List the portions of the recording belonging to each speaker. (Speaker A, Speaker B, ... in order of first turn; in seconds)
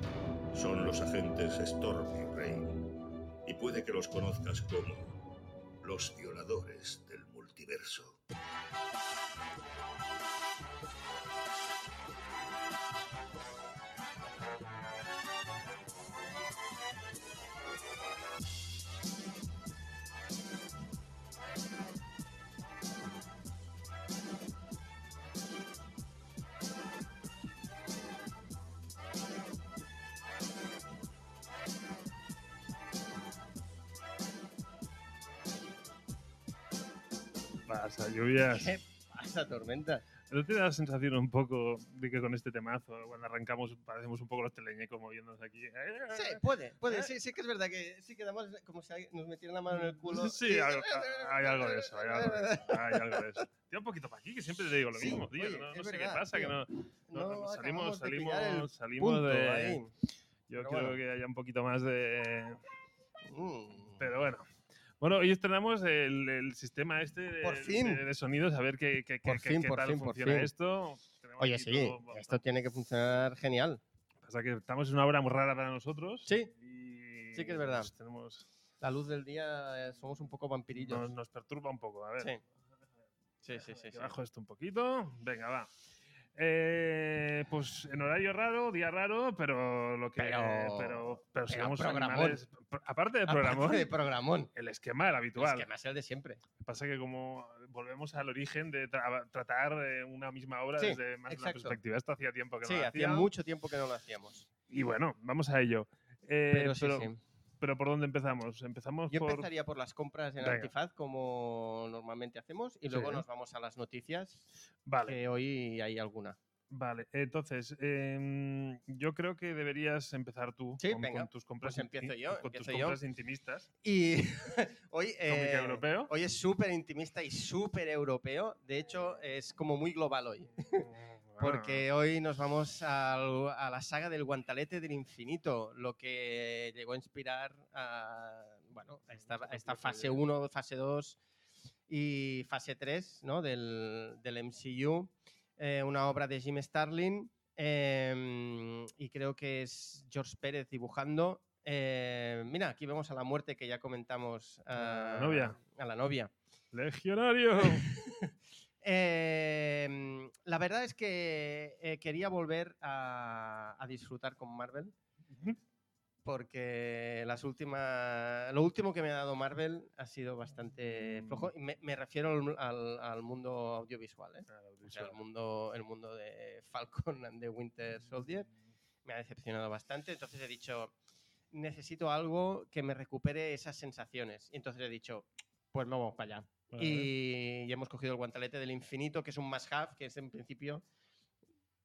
Speaker A: 0.5-2.8, 3.5-5.1, 5.8-8.2
Speaker B: 37.7-38.7, 40.3-47.1, 49.7-59.8, 60.5-62.6, 63.9-64.5, 65.0-72.4, 74.2-78.5, 80.7-82.3, 83.5-85.7, 86.3-93.9, 94.5-95.7, 96.6-103.3, 104.7-109.5, 110.4-110.7, 112.9-113.2, 114.9-115.2, 116.7-123.7, 125.3-126.1, 130.7-131.9, 139.2-140.2, 154.8-155.6, 156.7-157.9, 170.9-171.5, 174.5-175.2, 186.7-187.1
Speaker C: 38.4-40.0, 46.1-53.4, 54.9-56.6, 57.1-59.9, 60.6-61.0, 63.2-64.0, 67.4-68.0, 69.2-70.5, 71.4-73.8, 76.2-76.5, 77.3-77.9, 78.8-81.1, 83.4-84.1, 90.2-92.4, 93.2-94.5, 95.4-96.4, 100.8-101.8, 102.6-104.5, 106.5-107.2, 109.1-114.5, 115.0-116.4, 120.8-123.0, 123.8-130.9, 131.4-141.2, 141.9-156.3, 157.6-164.9, 166.2-178.5, 179.0-180.9, 181.5-190.8